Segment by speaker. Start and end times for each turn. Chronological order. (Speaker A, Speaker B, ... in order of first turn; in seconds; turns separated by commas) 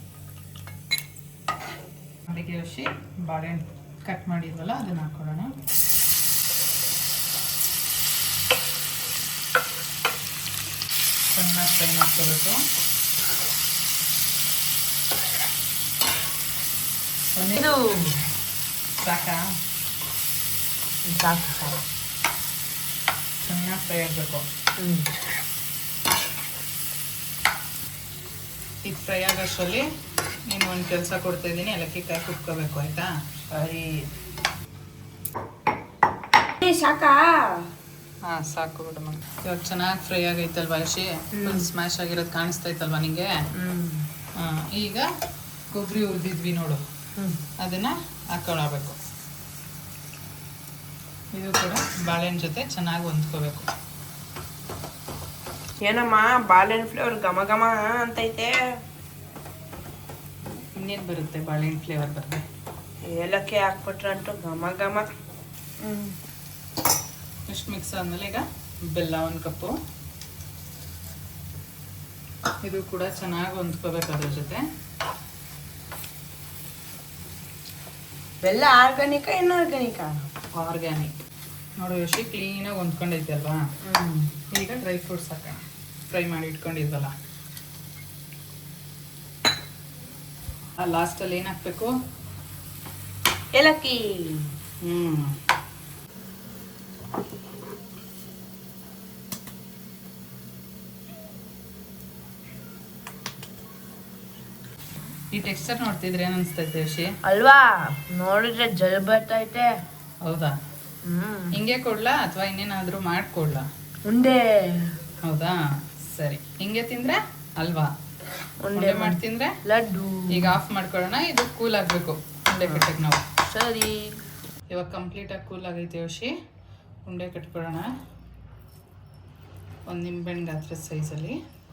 Speaker A: 2.3-5.6, Speaker A: 11.3-12.6, Speaker A: 17.4-18.1, Speaker B: 17.6-18.1, Speaker A: 18.9-19.4, Speaker B: 21.1-21.8, Speaker A: 23.4-24.5, Speaker B: 24.8-25.1, Speaker A: 28.8-29.9, Speaker A: 30.5-33.1, Speaker B: 33.5-34.1, Speaker B: 36.6-37.3, Speaker A: 38.3-43.3, Speaker B: 41.4-41.7, Speaker B: 43.6-44.1, Speaker A: 44.4-45.1, Speaker A: 45.7-46.8, Speaker B: 47.2-47.4, Speaker A: 47.6-49.0, Speaker A: 51.3-53.7, Speaker B: 55.8-58.6, Speaker A: 60.8-62.4, Speaker B: 63.1-65.1, Speaker B: 65.8-66.2, Speaker A: 67.5-69.8, Speaker A: 72.6-74.6, Speaker B: 78.4-80.2, Speaker A: 80.6-81.1, Speaker A: 81.8-83.6, Speaker B: 83.9-84.3, Speaker A: 84.5-87.1, Speaker A: 90.8-91.9, Speaker B: 93.5-94.5, Speaker A: 94.8-95.4, Speaker A: 105.3-107.1, Speaker B: 107.2-109.7, Speaker A: 110.2-110.6, Speaker B: 111.0-111.5, Speaker A: 111.5-113.7, Speaker B: 114.1-114.9, Speaker A: 115.2-117.9, Speaker B: 118.6-120.6, Speaker A: 118.7-119.6, Speaker A: 120.3-123.3, Speaker B: 122.6-122.9, Speaker B: 123.4-124.0, Speaker A: 124.7-126.3, Speaker A: 127.0-127.9, Speaker A: 129.9-131.4